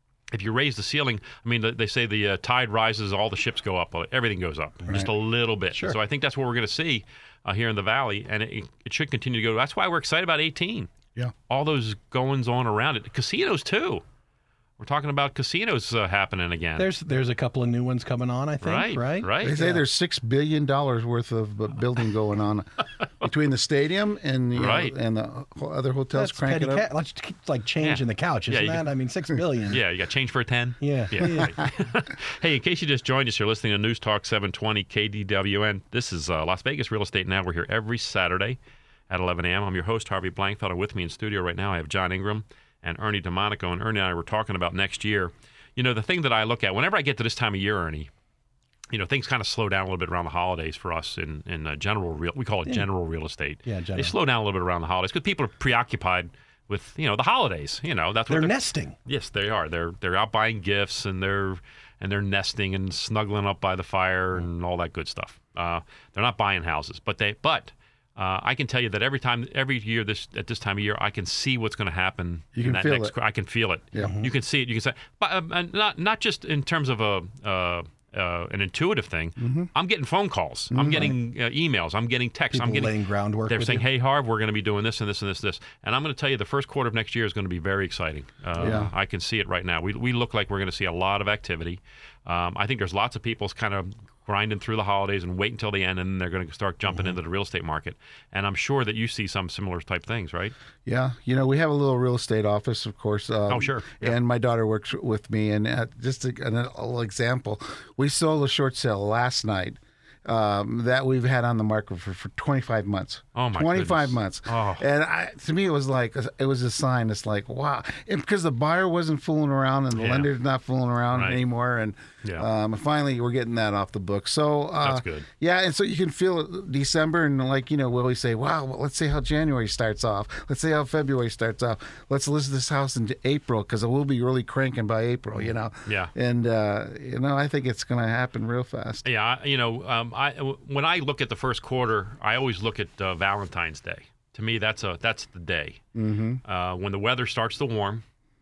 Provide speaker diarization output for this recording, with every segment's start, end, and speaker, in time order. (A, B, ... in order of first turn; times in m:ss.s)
0:00.3-0:10.9 A
0:04.8-0:05.1 B
0:11.5-0:14.0 A
0:14.8-0:16.9 A
0:16.8-0:19.8 B
0:18.6-0:19.6 A
0:19.4-0:22.7 C
0:23.2-0:26.8 C
0:24.5-0:24.9 A
0:26.1-0:29.8 B
0:27.8-0:28.9 A
0:29.7-0:38.6 A
0:30.8-0:31.5 B
0:39.1-0:48.1 A
0:48.9-1:23.0 A
0:53.6-0:54.1 B
0:58.3-0:58.9 B
1:12.6-1:13.1 C
1:14.0-1:14.3 B
1:19.4-1:19.7 C
1:20.7-1:21.1 C
1:22.5-1:23.8 B
1:23.5-1:40.5 A
1:28.6-1:28.9 C
1:40.8-2:19.0 C
1:43.5-1:44.1 A
1:53.4-1:54.8 A
2:00.0-2:00.3 A
2:01.1-2:01.4 A
2:04.8-2:05.3 A
2:15.8-2:16.1 A
2:19.0-2:25.8 A
2:25.9-2:26.4 C
2:26.4-2:28.0 A